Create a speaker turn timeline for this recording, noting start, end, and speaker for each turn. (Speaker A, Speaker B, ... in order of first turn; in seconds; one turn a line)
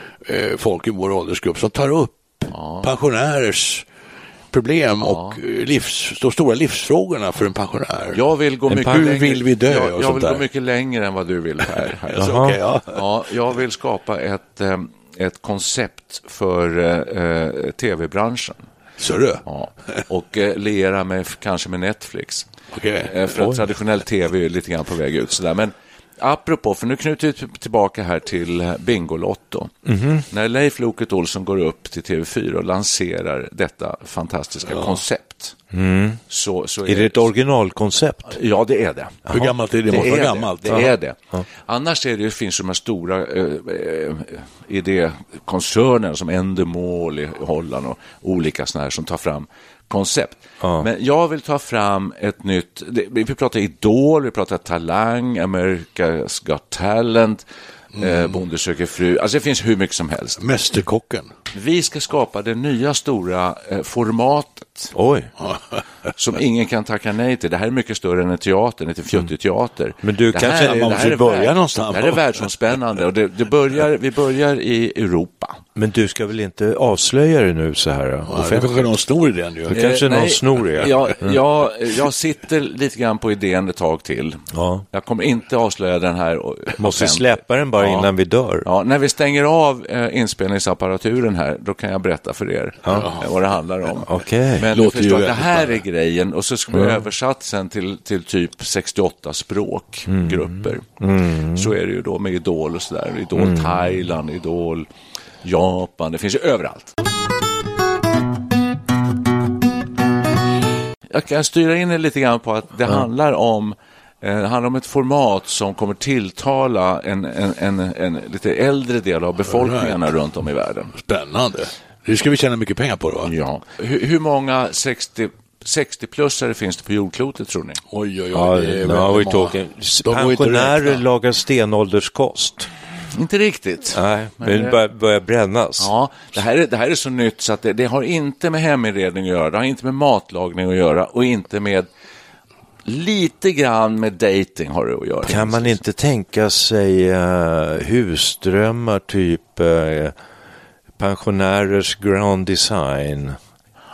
Speaker A: 0.2-3.9
Speaker B: 2.5-2.9
Speaker A: 4.5-10.4
Speaker B: 5.0-5.4
Speaker B: 8.1-12.3
Speaker A: 12.1-13.0
Speaker C: 12.2-12.6
Speaker B: 12.9-18.6
Speaker A: 19.0-19.4
Speaker B: 19.5-22.5
Speaker A: 22.7-23.1
Speaker B: 23.0-29.7
Speaker C: 29.9-30.2
Speaker B: 30.3-35.6
Speaker C: 35.7-36.2
Speaker B: 36.3-37.3
Speaker C: 36.9-38.4
Speaker B: 38.3-39.3
Speaker A: 39.3-40.9
Speaker B: 39.9-41.2
Speaker B: 41.7-57.4
Speaker C: 50.6-50.9
Speaker A: 58.0-58.4
Speaker B: 58.0-60.4
Speaker A: 60.4-61.3
Speaker B: 61.5-64.9
Speaker C: 65.0-65.3
Speaker B: 66.2-75.6
Speaker C: 70.0-71.4
Speaker A: 70.5-72.2
Speaker C: 75.8-78.9
Speaker A: 78.3-79.8
Speaker C: 79.7-81.4
Speaker B: 79.7-88.1
Speaker C: 84.5-84.8
Speaker C: 86.8-88.7
Speaker B: 88.7-100.8
Speaker A: 92.9-93.3
Speaker C: 94.0-94.7
Speaker A: 94.7-95.8
Speaker C: 96.7-97.0
Speaker C: 100.1-101.7
Speaker B: 101.5-104.9
Speaker C: 103.4-103.9
Speaker B: 105.4-106.9
Speaker B: 111.1-120.9
Speaker A: 119.5-120.0
Speaker A: 121.0-123.3
Speaker B: 123.2-127.8
Speaker A: 127.9-131.0
Speaker C: 128.3-132.7
Speaker B: 133.1-134.8
Speaker C: 133.9-135.9
Speaker B: 135.8-141.9
Speaker B: 142.9-145.8
Speaker C: 145.2-150.2
Speaker C: 151.0-153.4